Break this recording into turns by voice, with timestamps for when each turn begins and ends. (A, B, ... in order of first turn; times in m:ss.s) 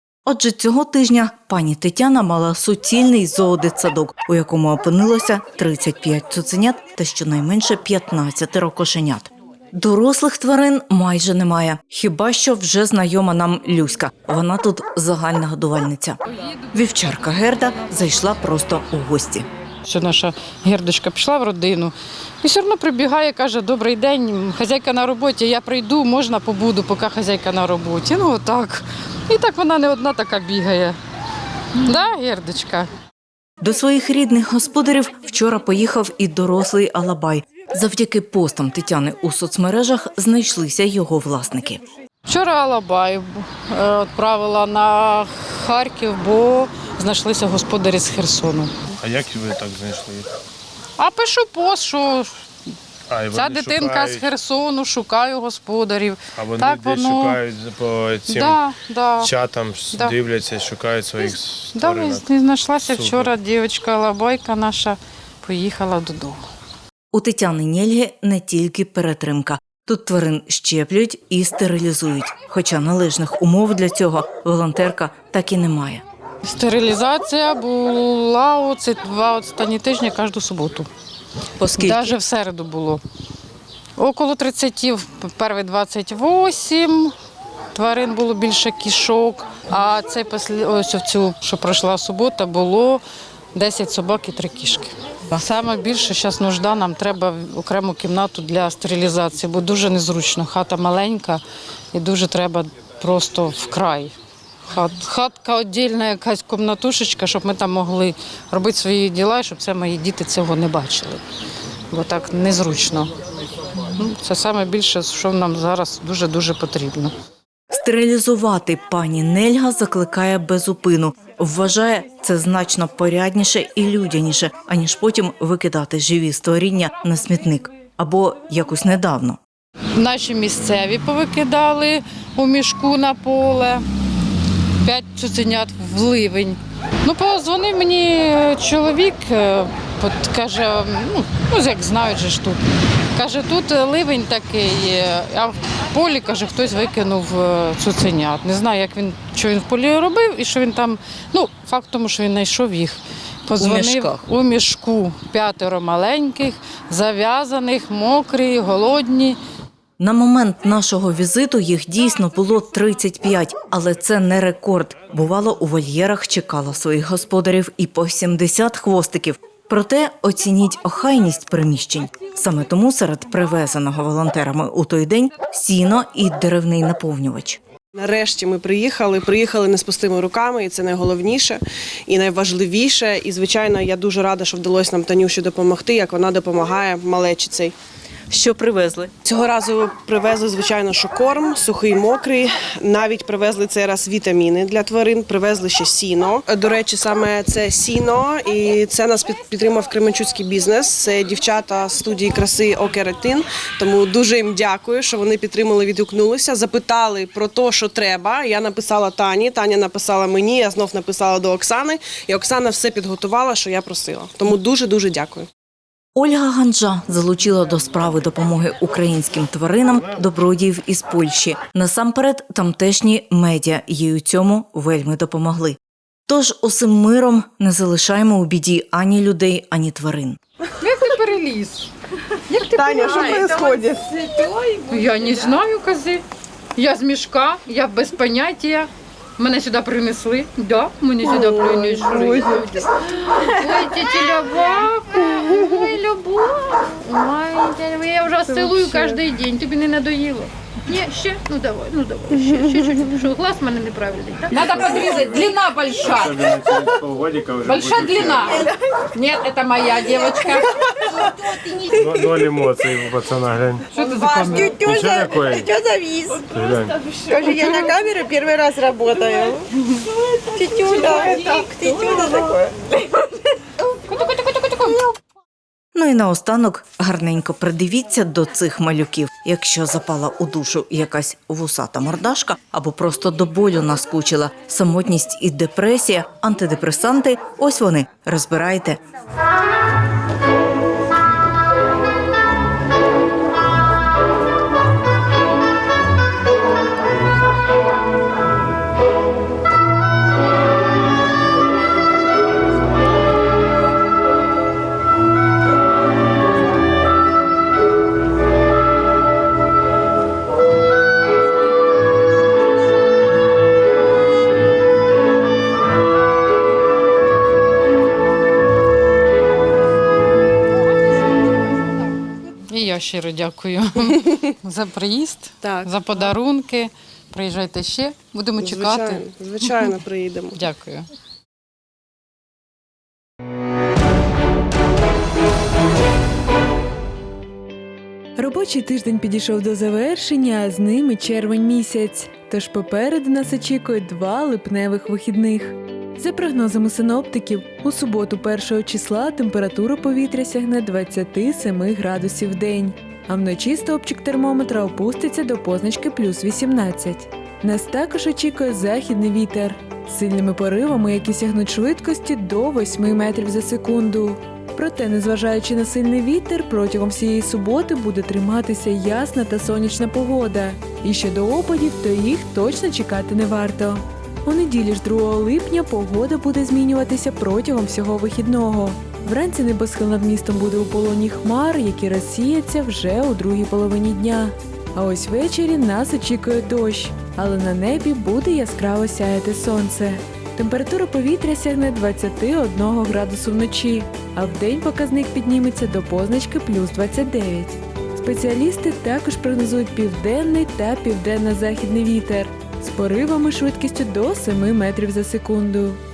0:00.3-0:16.2 A
0:16.7-0:19.5 A
0:19.9-0:31.0 B
0:31.8-0:32.9 B
0:33.6-0:41.8 A
0:42.3-0:48.7 B
0:49.0-0:50.3 C
0:51.0-0:52.3 B
0:53.1-0:54.3 C
0:53.3-0:57.4 B
0:56.4-0:58.6 C
0:58.3-0:59.3 B
0:59.2-1:02.3 C
0:59.9-1:00.2 B
1:01.2-1:06.4 B
1:02.8-1:03.4 C
1:07.1-1:16.0 A
1:16.4-1:20.9 B
1:21.6-1:22.1 A
1:21.7-1:23.0 B
1:24.0-1:27.1 B
1:27.8-1:33.0 B
1:33.5-1:41.4 B
1:41.9-1:44.1 B
1:44.7-1:51.2 B
1:51.9-1:53.1 B
1:53.9-1:57.1 B
1:57.7-2:09.4 A
2:10.0-2:13.8 B
2:14.8-2:22.6 B
2:23.2-2:39.4 B
2:33.6-2:34.2 A
2:40.0-2:57.6 A
2:57.9-3:07.8 D
3:08.3-3:09.1 A
3:09.2-3:35.5 D
3:36.2-3:50.4 A
3:50.8-3:51.9 B
3:52.6-3:56.2 B
3:52.7-3:54.0 D
3:56.8-4:16.6 B
4:01.2-4:02.6 E
4:14.6-4:14.9 C
4:16.0-4:18.5 C
4:17.6-4:20.7 B
4:18.5-4:18.8 E
4:20.1-4:20.6 E
4:21.8-4:22.5 E
4:21.9-4:23.9 C
4:23.9-4:26.6 E
4:24.0-4:24.7 B
4:24.8-4:25.7 C
4:26.5-4:27.0 C
4:27.1-4:29.7 E
4:30.4-4:33.2 E
4:34.8-4:35.1 E
4:36.0-4:49.0 A
5:22.7-5:29.9 B
5:25.6-5:25.9 D
5:28.6-5:30.6 D
5:30.5-5:31.1 B
5:38.4-6:46.0 F